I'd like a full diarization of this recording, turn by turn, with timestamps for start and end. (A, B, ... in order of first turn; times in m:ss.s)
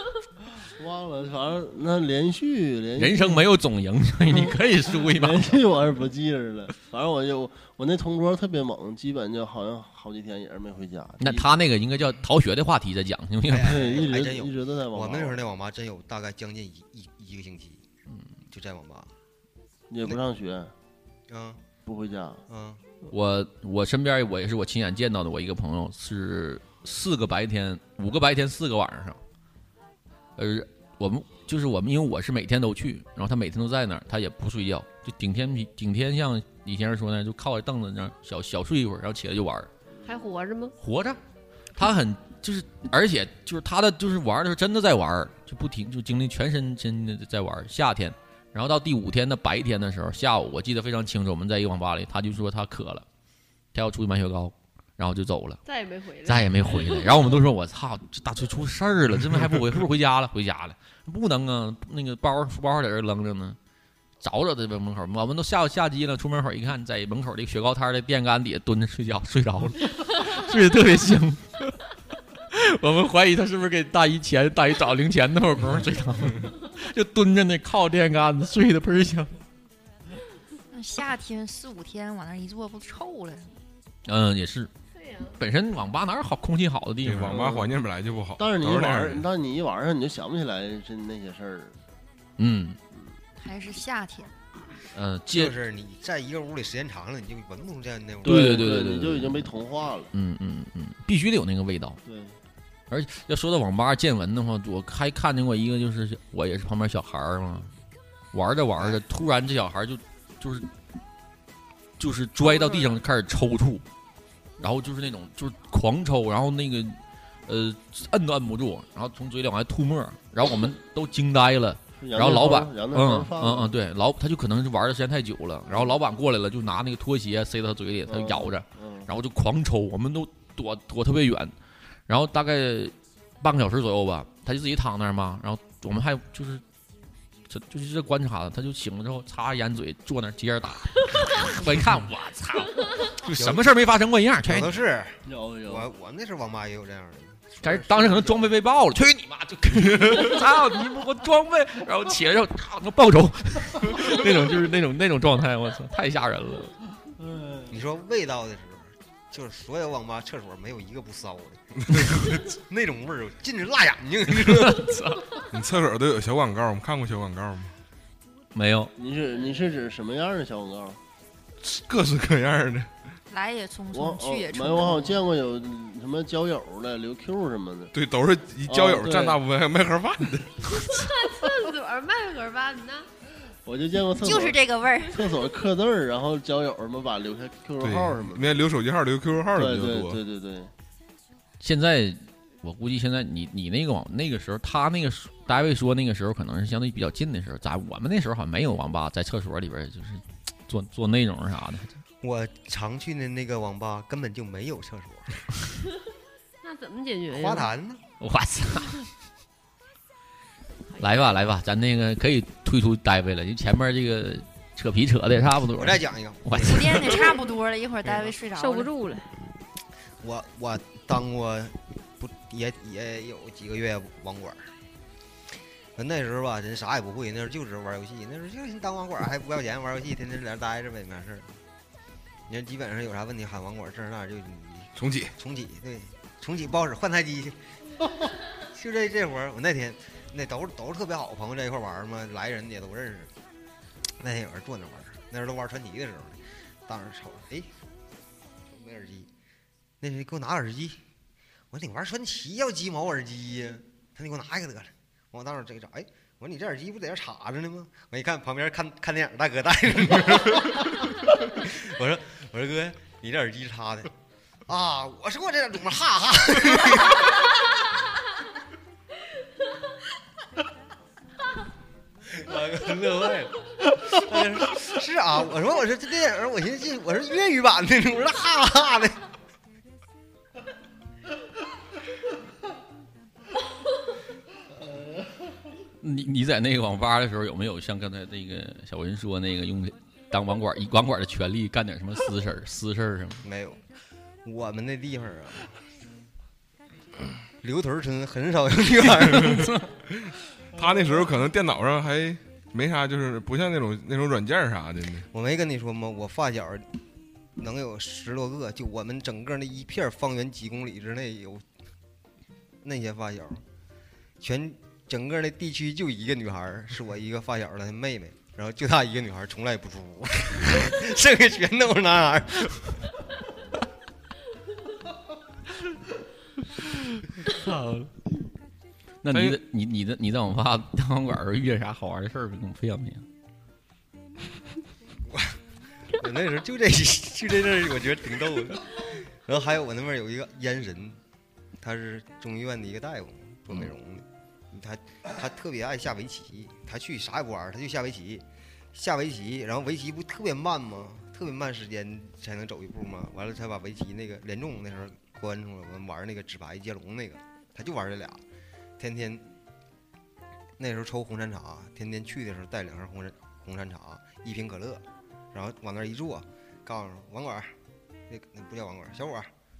0:00.7-0:03.5 A
0:03.0-0:05.6 B
0:04.3-0:11.5 A
0:11.2-0:14.0 B
0:13.5-0:17.8 C
0:13.5-0:15.4 A
0:18.5-0:19.1 C
0:19.9-0:20.7 A
0:21.3-0:21.6 C
0:21.8-0:22.4 A
0:22.5-0:22.8 C
0:23.1-0:29.2 B
0:30.4-0:39.7 B
0:40.0-0:40.7 D
0:40.8-0:41.2 B
0:41.7-0:53.0 B
0:53.7-0:55.6 B
0:55.6-0:57.1 D
0:56.2-1:03.6 B
1:04.2-1:11.8 B
1:12.5-1:19.4 B
1:20.7-1:23.5 E
1:24.0-1:24.7 B
1:24.9-1:25.4 D
1:25.4-1:27.4 B
1:27.0-1:29.2 F
1:27.2-1:27.7 A
1:28.4-1:31.8 A
1:32.4-1:32.8 B
1:33.4-1:34.3 E
1:34.9-1:35.6 B
1:35.3-1:38.6 C
1:38.2-1:40.1 A
1:38.2-1:39.5 B
1:40.1-1:42.0 B
1:42.0-1:42.4 A
1:42.9-1:47.7 B
1:48.3-1:50.7 B
1:52.0-1:53.8 B
1:54.6-2:11.5 B
2:02.0-2:03.8 A
2:05.7-2:05.9 A
2:08.1-2:09.1 A
2:12.1-2:16.6 B
2:17.5-2:24.8 B
2:23.2-2:23.8 C
2:24.4-2:28.5 C
2:25.2-2:25.9 A
2:27.6-2:36.7 B
2:37.2-2:37.7 A
2:37.7-2:44.9 C
2:41.9-2:42.4 F
2:44.4-2:45.3 B
2:45.5-2:47.7 F
2:48.5-2:48.9 B
2:49.0-2:51.0 A
2:51.6-2:52.9 F
2:53.3-2:55.2 E
2:53.9-2:57.9 A
2:57.9-3:00.9 F
2:58.6-2:59.4 A
3:00.7-3:03.1 D
3:03.6-3:08.6 A
3:04.2-3:05.2 E
3:07.8-3:10.2 F
3:09.5-3:10.7 A
3:11.6-3:22.0 B
3:22.2-3:25.5 C
3:26.6-3:27.7 D
3:27.3-3:28.0 C
3:28.2-3:29.1 B
3:31.0-3:37.2 B
3:35.8-3:37.3 C
3:36.5-3:38.9 E
3:38.5-3:39.3 D
3:40.2-3:44.6 C
3:46.0-3:51.6 C
3:52.5-3:57.6 C
3:55.0-3:55.3 F
3:58.6-4:03.3 C
4:04.2-4:07.7 C
4:08.7-4:09.3 C
4:10.0-4:11.0 C
4:11.7-4:24.1 C
4:24.7-4:27.5 C
4:32.3-4:39.2 C
4:46.0-4:53.4 B
4:53.4-4:53.8 C
4:54.4-4:55.7 C
4:57.6-4:59.8 C
5:00.3-5:05.3 F
5:05.3-5:07.0 C
5:07.6-5:11.6 C
5:12.8-5:13.6 C
5:14.4-5:23.0 C
5:27.1-5:28.1 B
5:29.2-5:33.2 B
5:29.3-5:29.6 F
5:35.3-5:35.6 C
5:36.1-5:41.2 C
5:41.8-5:58.4 C
5:59.0-5:59.4 C
6:00.8-6:07.7 C
6:08.3-6:09.5 C